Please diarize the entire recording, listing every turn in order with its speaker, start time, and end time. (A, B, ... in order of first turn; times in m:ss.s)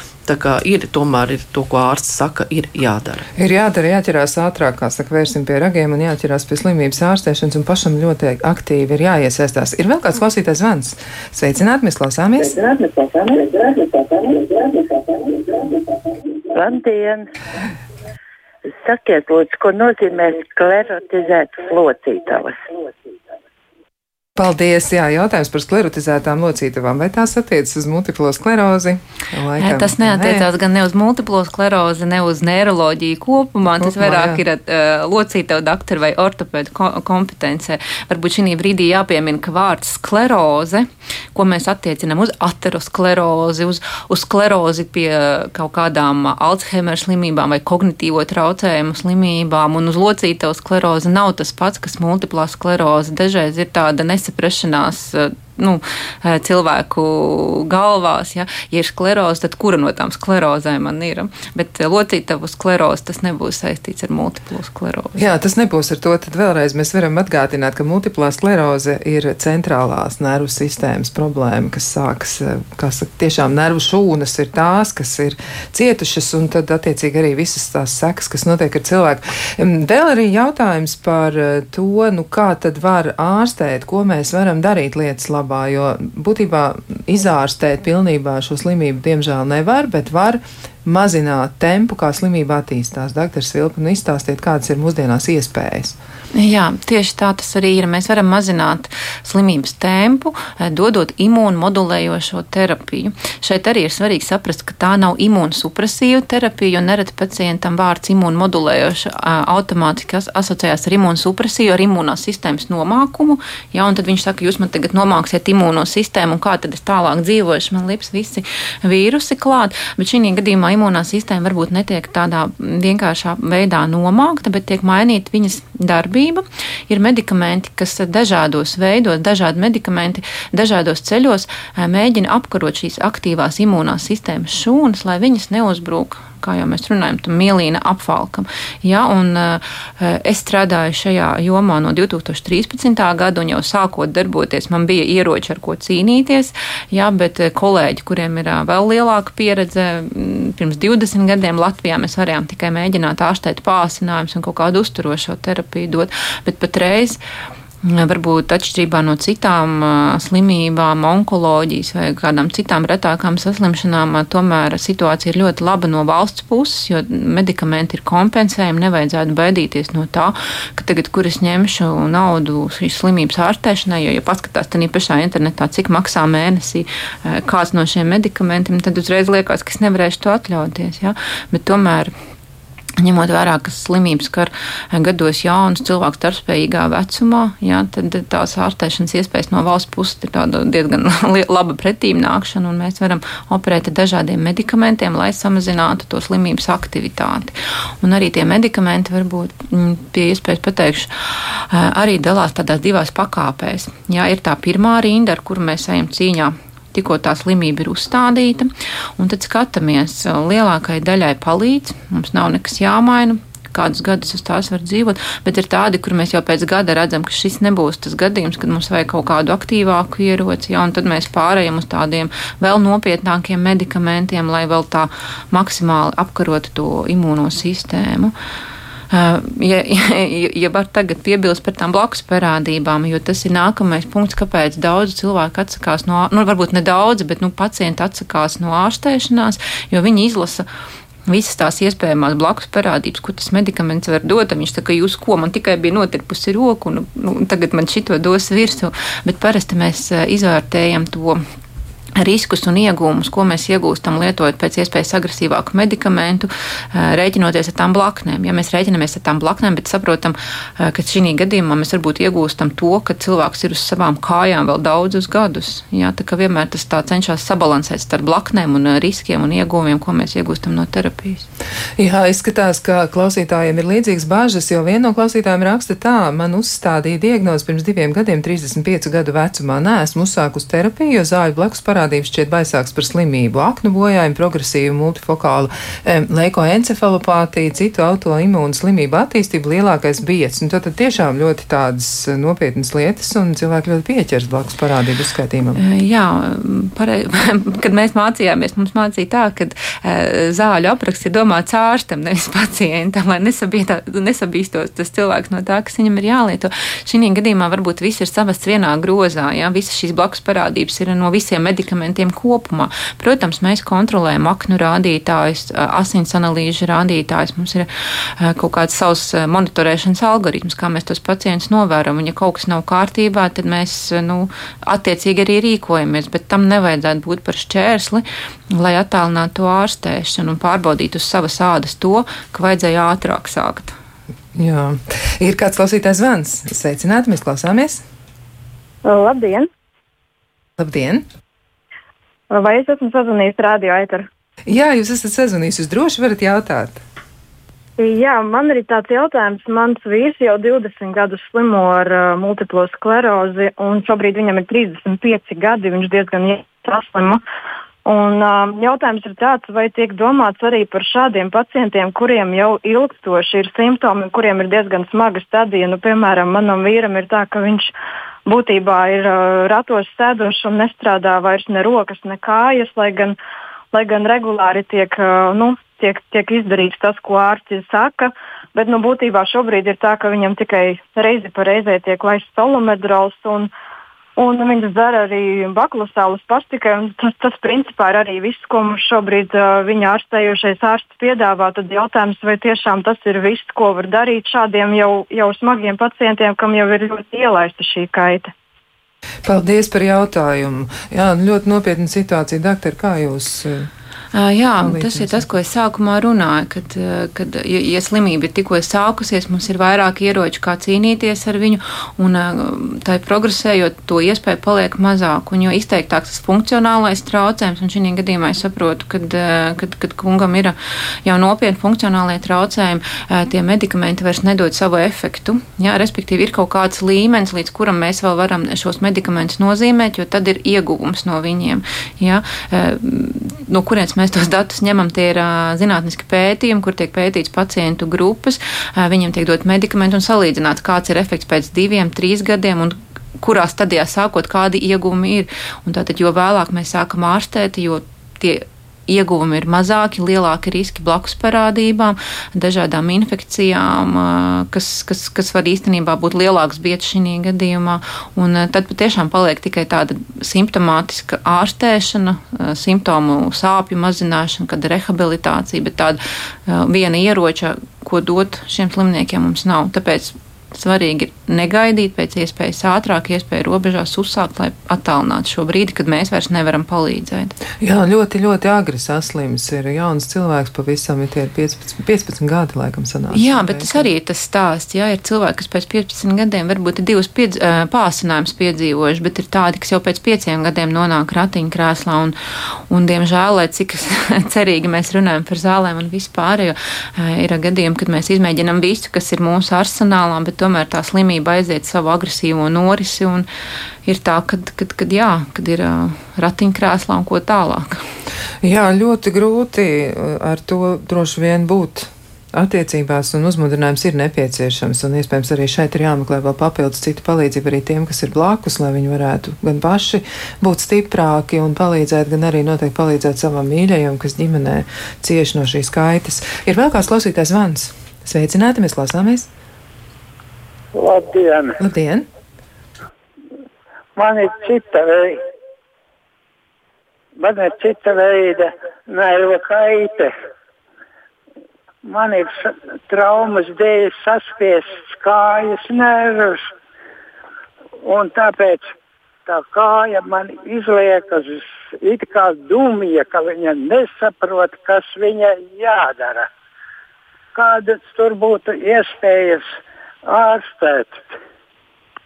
0:00.3-0:03.2 A
0:03.4-0:12.6 B
0:12.5-0:16.0 C
0:16.5-0:17.3 C
0:18.7-0:22.6 C
0:24.4-0:30.5 B
0:29.6-1:05.2 D
0:33.8-0:34.4 B
1:05.2-1:36.0 B
1:36.3-2:37.2 D
2:37.8-3:02.1 D
3:03.0-3:48.3 D
3:49.1-4:00.7 D
4:01.3-4:11.4 D
4:12.2-4:31.5 D
4:32.0-4:55.8 B
4:55.8-5:33.9 D
5:34.6-5:38.0 B
5:39.1-5:39.7 E
5:40.8-5:41.3 B
5:42.5-5:44.3 E
5:44.7-5:47.0 B
5:48.0-5:57.4 E
5:58.0-6:07.9 E
6:08.5-6:13.4 E
6:13.9-6:23.7 E
6:24.4-6:38.5 E
6:39.4-6:43.9 B
6:44.3-7:57.6 D
6:44.8-6:45.5 B
7:57.8-8:04.1 B
8:03.3-8:12.4 D
8:12.9-8:23.5 D
8:24.0-8:28.0 D
8:28.6-8:49.5 B
8:51.0-8:51.8 F
8:51.8-8:52.3 B
8:54.2-8:55.4 F
8:57.4-9:00.3 F
9:02.0-9:06.7 F
9:08.0-9:09.0 F
9:09.5-9:16.5 F
9:17.6-9:19.7 F
9:20.2-9:21.4 F